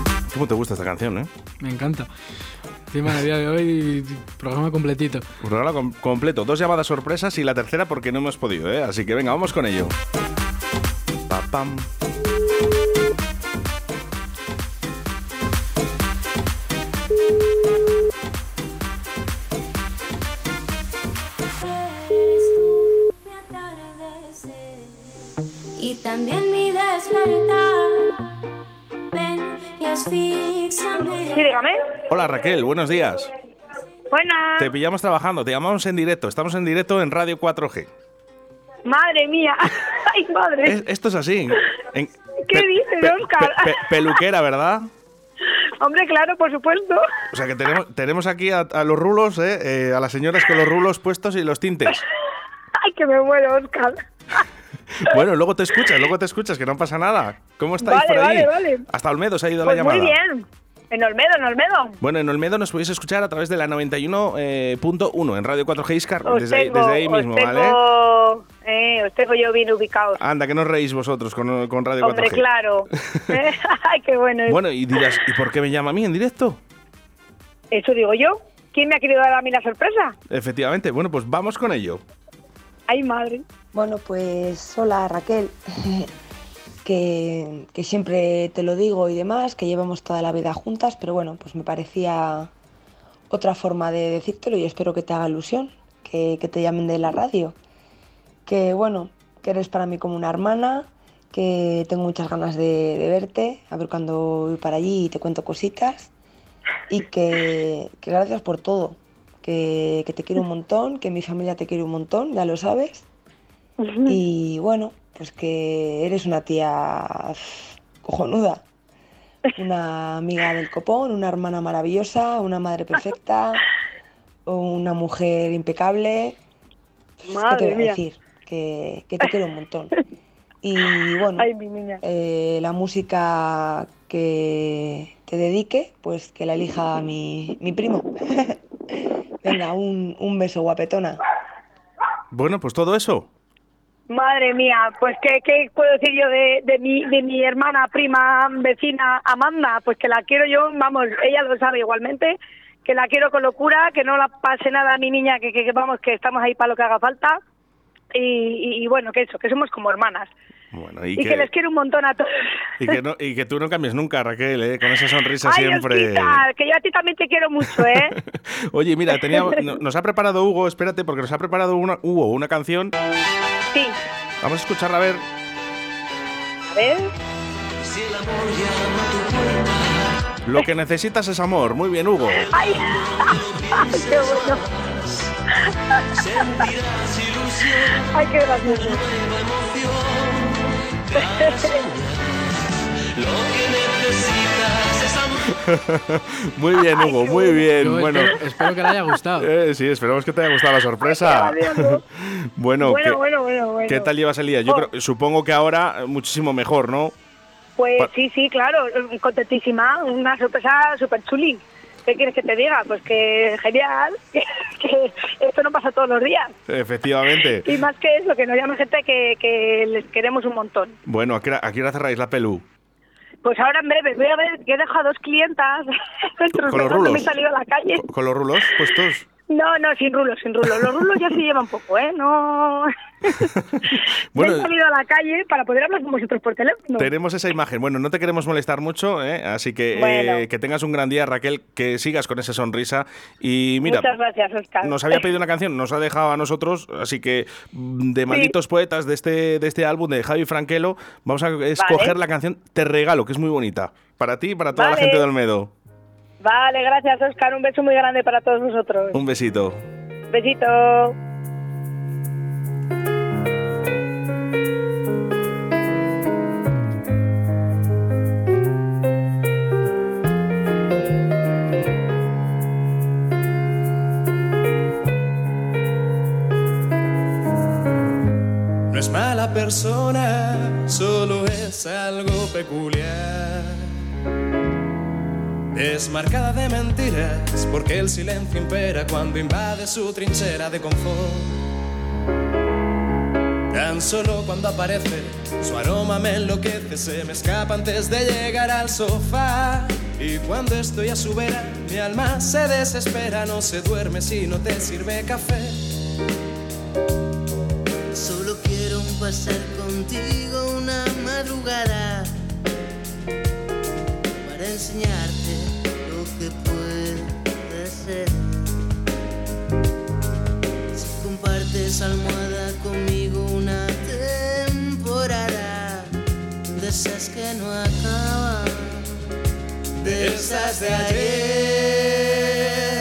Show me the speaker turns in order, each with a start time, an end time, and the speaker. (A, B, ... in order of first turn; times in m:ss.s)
0:00.3-0:01.3 A
0:01.6-0:02.1 B
0:02.9-0:05.2 B
0:05.4-0:10.0 A
0:11.3-0:11.9 A
0:21.6-0:28.0 C
0:29.1-0:31.4 C
0:31.3-0:31.8 D
0:32.1-0:33.3 A
0:34.1-0:34.7 D
0:34.6-0:37.9 A
0:38.8-0:40.8 D
0:40.6-0:44.9 A
0:42.5-0:44.2 D
0:45.8-0:47.0 D
0:47.3-0:52.0 A
0:52.8-0:54.0 D
0:54.9-1:00.2 A
0:57.8-0:58.9 D
0:59.6-1:02.0 D
1:02.0-1:07.8 A
1:06.2-1:10.2 D
1:10.2-1:12.4 A
1:12.0-1:15.2 D
1:14.5-1:16.6 A
1:17.7-1:20.2 D
1:20.3-1:22.0 A
1:22.9-1:23.4 D
1:23.7-1:26.1 E
1:26.8-1:32.5 E
1:33.3-1:37.6 E
1:38.5-1:46.1 E
1:46.9-1:53.0 E
1:53.8-1:54.2 D
1:54.1-1:58.6 E
1:59.6-2:03.6 E
2:04.5-2:06.4 E
2:07.3-2:08.0 D
2:07.3-2:09.9 E
2:10.6-2:11.5 E
2:11.4-2:12.0 D
2:12.0-2:18.6 E
2:19.4-2:21.2 E
2:22.3-2:23.3 A
2:24.1-2:37.4 D
2:38.1-2:40.3 D
2:40.7-2:41.5 A
2:41.2-2:42.3 D
2:42.8-2:46.4 A
2:45.4-2:48.2 D
2:47.7-2:53.0 A
2:49.2-2:49.6 D
2:54.4-2:55.2 A
2:56.7-2:57.1 D
2:57.9-2:59.8 F
3:00.4-3:02.6 A
3:02.5-3:04.6 D
3:03.2-3:05.2 F
3:06.2-3:08.0 F
3:08.0-3:09.0 D
3:08.9-3:12.2 F
3:11.2-3:11.8 D
3:13.0-3:15.4 F
3:15.4-3:18.4 A
3:17.0-3:17.7 D
3:17.7-3:19.5 B
3:19.4-3:23.2 A
3:21.1-3:22.0 D
3:22.8-3:24.1 D
3:23.9-3:27.1 A
3:27.8-3:36.5 D
3:36.7-3:37.8 A
3:37.6-3:41.0 D
3:41.1-3:42.6 A
3:43.4-3:48.0 D
3:46.6-3:47.3 A
3:48.0-3:49.3 A
3:49.5-3:57.1 D
3:53.4-3:54.7 A
3:57.0-4:04.1 A
4:00.0-4:00.4 D
4:03.8-4:05.2 D
4:04.8-4:15.7 A
4:11.8-4:12.2 D
4:14.8-4:15.2 D
4:16.4-4:19.2 D
4:19.1-4:19.8 A
4:20.3-4:21.2 D
4:38.9-4:44.0 G
4:45.7-4:51.6 G
4:53.7-5:05.8 G
5:08.1-5:12.3 F
5:14.4-5:18.6 F
5:20.9-5:26.2 F
5:26.7-5:29.2 F
5:30.0-5:31.5 G
5:30.0-5:32.4 F